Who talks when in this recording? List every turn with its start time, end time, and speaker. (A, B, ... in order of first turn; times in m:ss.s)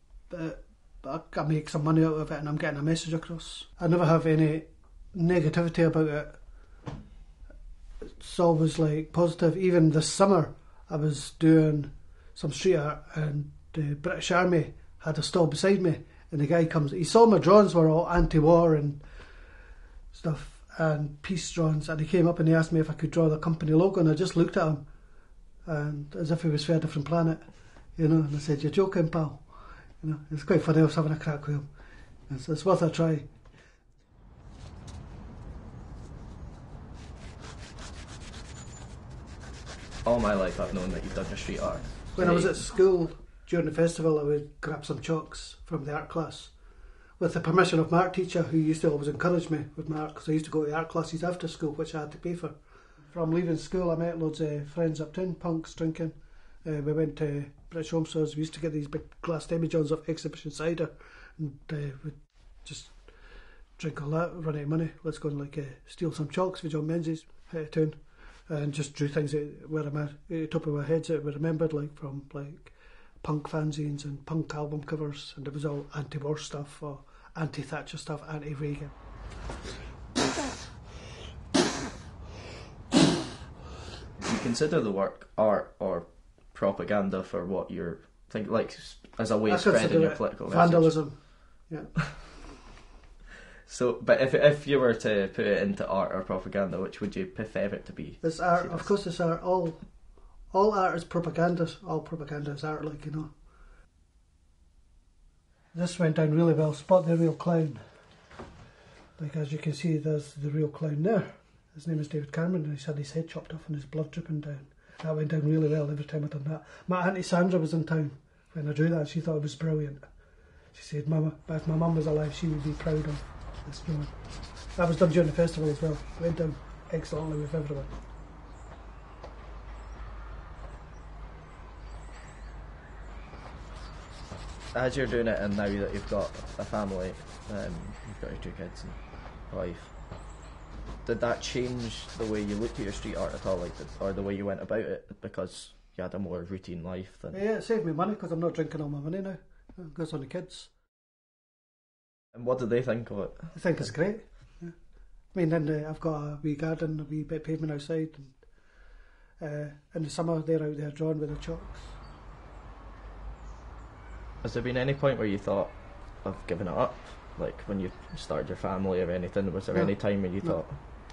0:00.3-0:06.4 A
0:08.2-0:19.0 A
0:20.1-0:24.8 A
0:25.7-0:27.4 A
0:28.0-0:29.5 A
0:30.0-0:31.7 A
0:32.3-0:33.3 A
0:40.0-0:42.6 B
0:42.2-0:46.5 A
0:47.2-0:52.6 A
0:53.1-1:03.0 A
1:03.8-1:19.0 A
1:24.2-1:31.2 B
1:29.5-1:32.3 A
1:33.7-1:38.9 B
1:38.2-1:39.9 A
1:40.5-1:43.3 A
1:45.7-1:47.8 A
1:49.2-2:00.0 A
2:00.7-2:04.2 A
2:04.8-2:07.9 A
2:14.7-2:19.9 B
2:21.0-2:27.4 B
2:27.3-2:30.7 A
2:32.3-2:33.9 B
2:33.5-2:34.8 A
2:35.3-2:38.4 A
2:39.4-2:42.0 A
2:44.4-2:50.8 B